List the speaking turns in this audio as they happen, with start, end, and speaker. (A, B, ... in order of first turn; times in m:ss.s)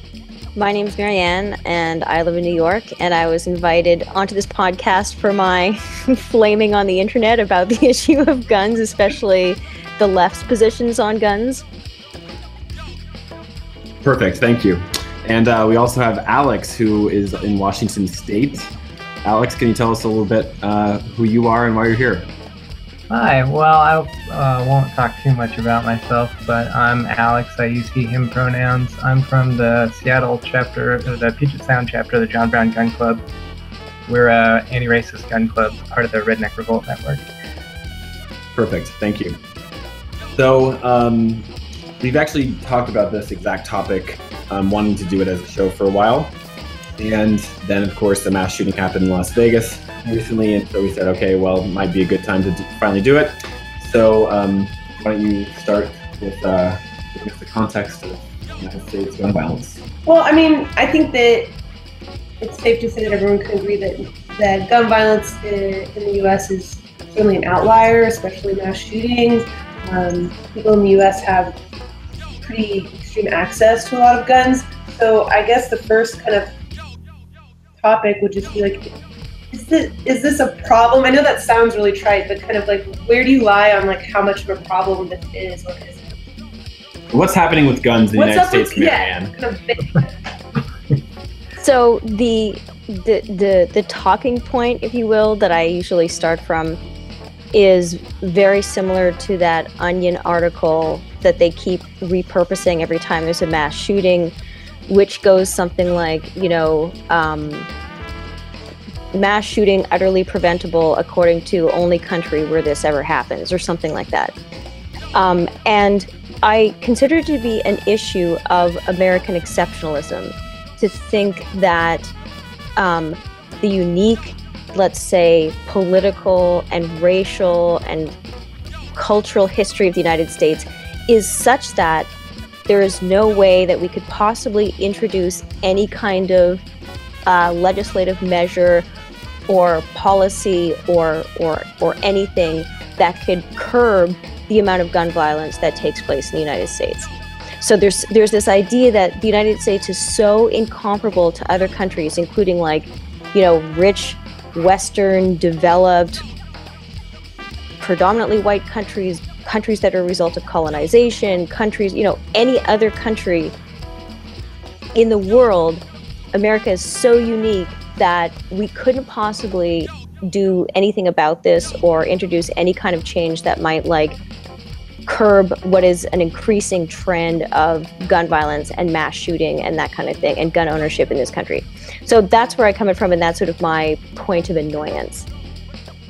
0:00.6-0:11.6 A
0:14.0-0:18.7 B
0:19.2-0:22.3 B
0:23.1-0:33.2 C
0:34.1-0:37.2 C
0:38.6-0:39.4 B
0:40.4-0:41.5 B
0:42.0-0:46.4 B
0:47.0-0:59.9 B
1:00.1-1:01.5 D
1:02.4-1:11.6 D
1:12.4-1:16.5 D
1:17.8-1:18.9 D
1:19.5-1:26.2 D
1:27.1-1:29.3 B
1:28.2-1:30.1 D
1:31.6-1:36.8 A
1:37.5-1:44.3 A
1:44.9-1:47.7 A
1:49.1-1:54.3 A
1:55.1-2:02.1 A
2:02.8-2:08.1 A
2:09.0-2:12.1 A
2:12.7-2:16.6 A
2:17.3-2:18.9 A
2:19.5-2:36.2 A
2:37.8-2:43.6 A
2:45.0-2:45.8 A
2:46.3-2:54.2 A
2:55.1-3:05.3 A